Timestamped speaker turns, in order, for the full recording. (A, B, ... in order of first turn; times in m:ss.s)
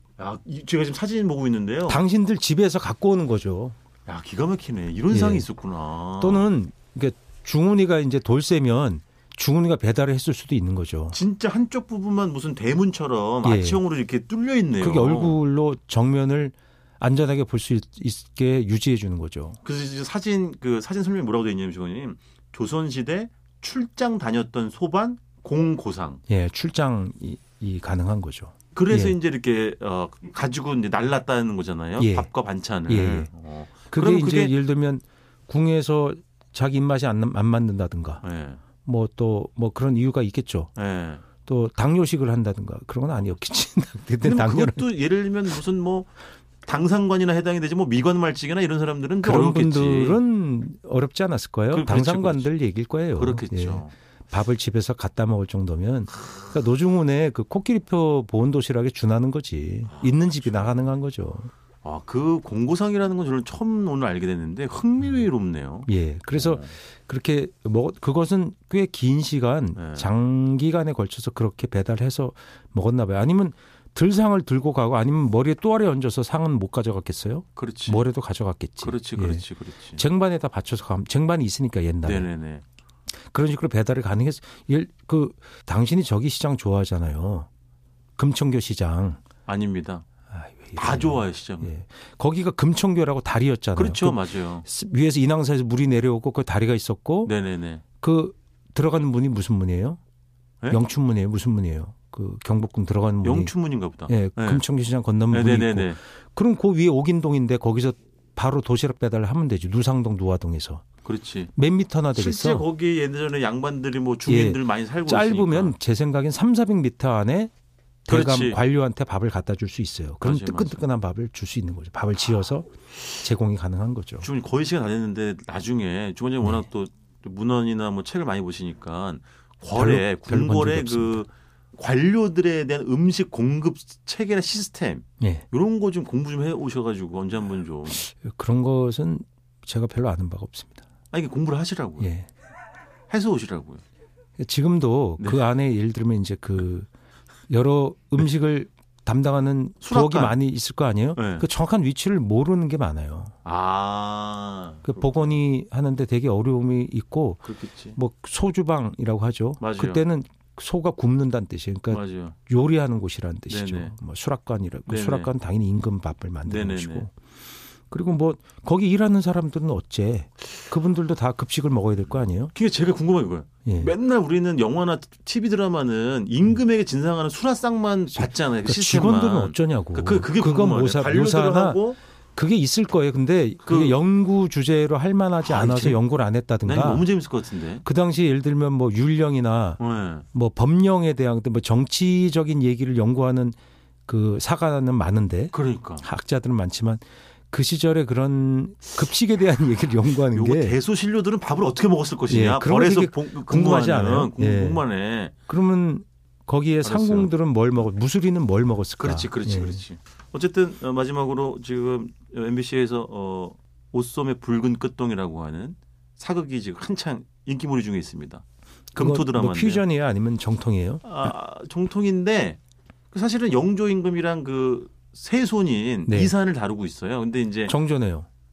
0:00.2-0:02.0 A
0:01.9-0:03.8 B
0:04.0-0:06.5 A
0:05.1-0:05.5 B
0:06.2-0:11.2 B
0:11.1-0:15.4 A
0:13.4-0:13.8 B
0:14.8-0:19.6 B
0:19.6-0:26.2 A
0:26.3-0:29.2 B
0:28.7-0:34.6 A
0:32.0-0:32.3 B
0:32.9-0:33.3 B
0:33.9-0:38.2 B
0:38.2-0:38.6 A
0:38.8-0:40.7 B
0:40.8-0:41.2 A
0:41.4-0:44.9 B
0:44.2-0:46.1 A
0:46.6-0:50.2 A
0:49.2-1:01.5 B
0:51.7-0:52.5 A
0:53.1-0:53.9 A
0:59.9-1:00.8 A
1:01.8-1:06.7 A
1:05.9-1:22.3 B
1:09.7-1:10.1 A
1:17.6-1:18.1 A
1:18.8-1:20.0 A
1:22.0-1:22.6 A
1:23.3-1:27.5 B
1:28.2-1:29.2 B
1:29.4-1:30.0 A
1:30.3-1:37.3 B
1:30.7-1:31.7 A
1:33.7-1:34.6 A
1:37.2-1:37.8 A
1:38.0-1:40.0 B
1:40.7-1:43.6 B
1:43.2-1:44.6 A
1:44.1-1:50.8 B
1:45.3-1:46.0 A
1:51.0-1:51.5 A
1:51.6-1:52.6 B
1:52.1-1:55.8 A
1:54.2-1:57.5 B
1:58.1-2:04.3 B
1:58.1-1:58.6 A
2:00.2-2:00.9 A
2:04.2-2:18.0 A
2:09.7-2:11.2 B
2:15.2-2:15.5 B
2:17.9-2:20.8 B
2:21.1-2:22.1 A
2:22.0-2:22.3 B
2:23.1-2:23.8 A
2:24.4-2:26.9 B
2:27.5-2:33.3 B
2:29.8-2:30.4 A
2:31.2-2:31.5 A
2:33.4-2:35.4 A
2:34.8-2:47.1 B
2:37.4-2:38.0 A
2:39.6-2:40.0 A
2:41.9-2:42.4 A
2:43.5-2:43.9 A
2:44.9-2:45.3 A
2:46.4-2:47.1 A
2:47.9-2:52.5 B
2:52.4-3:02.0 A
2:53.6-2:53.9 B
2:58.1-3:07.1 B
3:03.6-3:04.0 A
3:05.4-3:06.0 A
3:06.6-3:07.8 A
3:07.8-3:09.8 B
3:09.8-3:10.2 A
3:10.3-3:13.6 B
3:14.1-3:20.8 B
3:15.5-3:16.0 A
3:20.1-3:25.3 A
3:22.3-3:24.8 B
3:25.5-3:29.8 B
3:26.8-3:27.3 A
3:29.0-3:39.8 A
3:39.0-3:41.3 B
3:41.0-3:42.6 A
3:43.1-3:47.8 A
3:46.1-3:46.3 B
3:47.7-3:48.3 B